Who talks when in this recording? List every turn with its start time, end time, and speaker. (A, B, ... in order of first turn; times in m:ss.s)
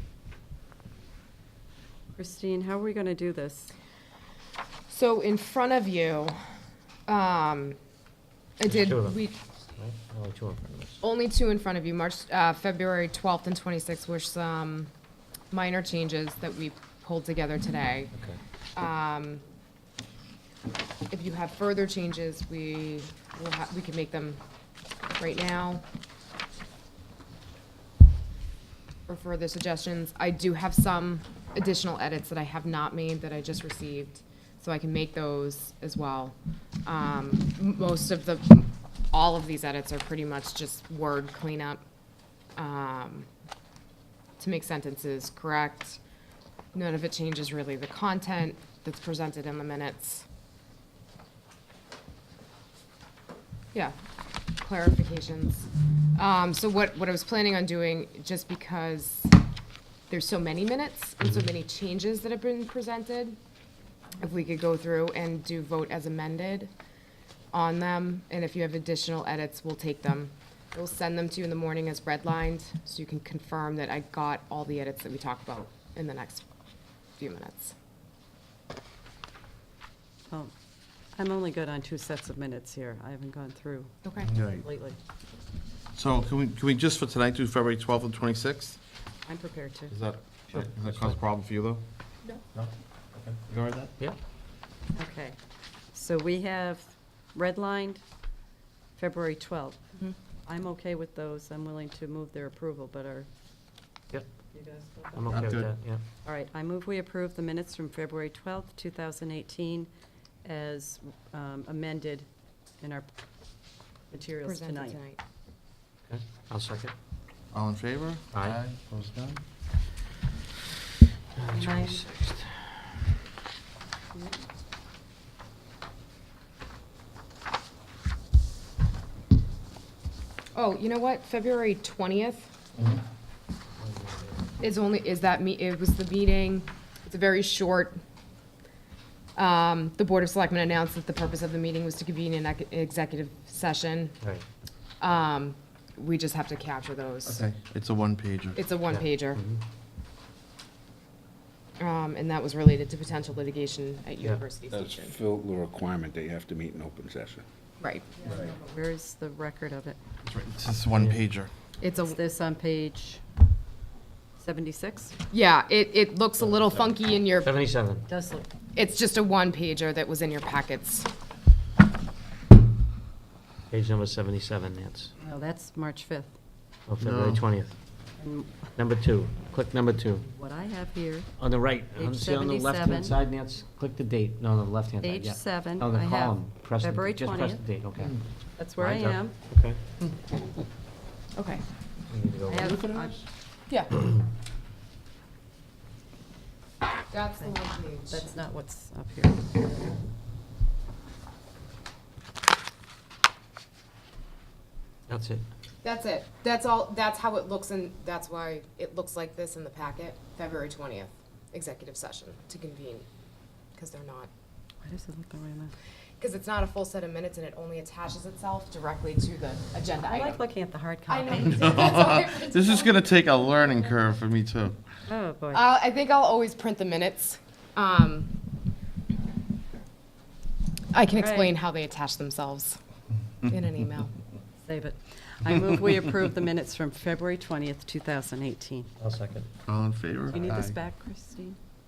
0:02.2-0:03.7 A
0:04.9-0:06.4 B
0:07.1-0:07.8 B
0:08.6-0:09.3 B
0:08.7-0:11.0 C
0:11.0-0:14.9 B
0:15.5-0:18.1 B
0:18.1-0:18.4 C
0:18.8-0:19.4 B
0:21.1-0:24.4 B
0:25.2-0:25.8 B
0:29.1-0:36.4 B
0:36.9-0:41.8 B
0:42.6-0:43.3 B
0:44.4-0:46.0 B
0:46.7-0:50.3 B
0:54.6-0:59.3 B
1:00.1-1:03.4 B
1:04.2-1:06.7 B
1:07.5-1:16.5 B
1:17.2-1:17.7 B
1:21.2-1:24.0 A
1:24.0-1:24.3 B
1:24.3-1:24.6 D
1:24.6-1:25.0 A
1:25.9-1:28.8 D
1:29.3-1:29.9 A
1:29.9-1:31.8 D
1:30.5-1:31.2 C
1:32.6-1:34.2 C
1:33.5-1:33.9 D
1:34.9-1:35.4 A
1:35.9-1:38.0 A
1:39.0-1:39.8 A
1:40.4-1:43.3 A
1:44.5-1:45.5 A
1:45.1-1:46.0 C
1:45.3-1:45.7 D
1:46.2-1:49.9 A
1:50.4-1:52.3 A
1:52.8-1:53.1 A
1:54.1-1:55.0 A
1:54.4-1:55.2 B
1:56.1-1:56.9 C
1:57.5-1:59.4 D
1:58.3-1:58.6 C
2:01.4-2:02.7 C
2:01.5-2:02.1 A
2:04.1-2:04.4 A
2:10.6-2:12.5 B
2:14.6-2:18.0 B
2:19.4-2:24.2 B
2:25.0-2:27.4 B
2:27.2-2:28.6 D
2:28.6-2:29.4 B
2:29.3-2:29.6 C
2:31.8-2:35.2 B
2:34.7-2:37.4 E
2:37.8-2:38.1 B
2:38.2-2:40.0 A
2:40.2-2:41.5 D
2:41.8-2:42.2 B
2:42.0-2:43.2 A
2:44.4-2:45.1 A
2:45.3-2:47.6 B
2:47.4-2:48.0 C
2:48.1-2:48.5 A
2:48.8-2:51.1 B
2:53.7-2:55.1 C
2:55.2-2:56.4 A
2:56.9-2:57.8 C
2:57.0-2:57.4 D
2:58.2-2:58.7 A
2:58.8-3:00.3 C
3:00.2-3:01.4 A
3:01.4-3:08.2 C
3:02.0-3:03.2 A
3:05.0-3:07.7 A
3:08.6-3:09.4 A
3:08.8-3:09.8 C
3:11.4-3:11.6 B
3:12.1-3:12.8 C
3:12.5-3:13.2 A
3:13.7-3:14.0 B
3:17.1-3:18.3 B
3:18.1-3:19.8 A
3:25.1-3:25.4 C
3:25.8-3:33.1 B
3:33.8-3:34.3 B
3:34.8-3:35.7 A
3:36.2-3:40.4 B
3:40.0-3:41.9 A
3:41.1-3:43.0 B
3:41.6-3:44.8 D
3:45.1-3:45.7 A
3:45.5-3:48.3 B
3:50.9-3:52.8 B
3:51.1-3:51.6 A
3:53.4-3:54.1 B
3:54.6-3:58.9 A
3:59.0-3:59.5 C
3:59.7-4:00.8 D
4:00.3-4:01.6 A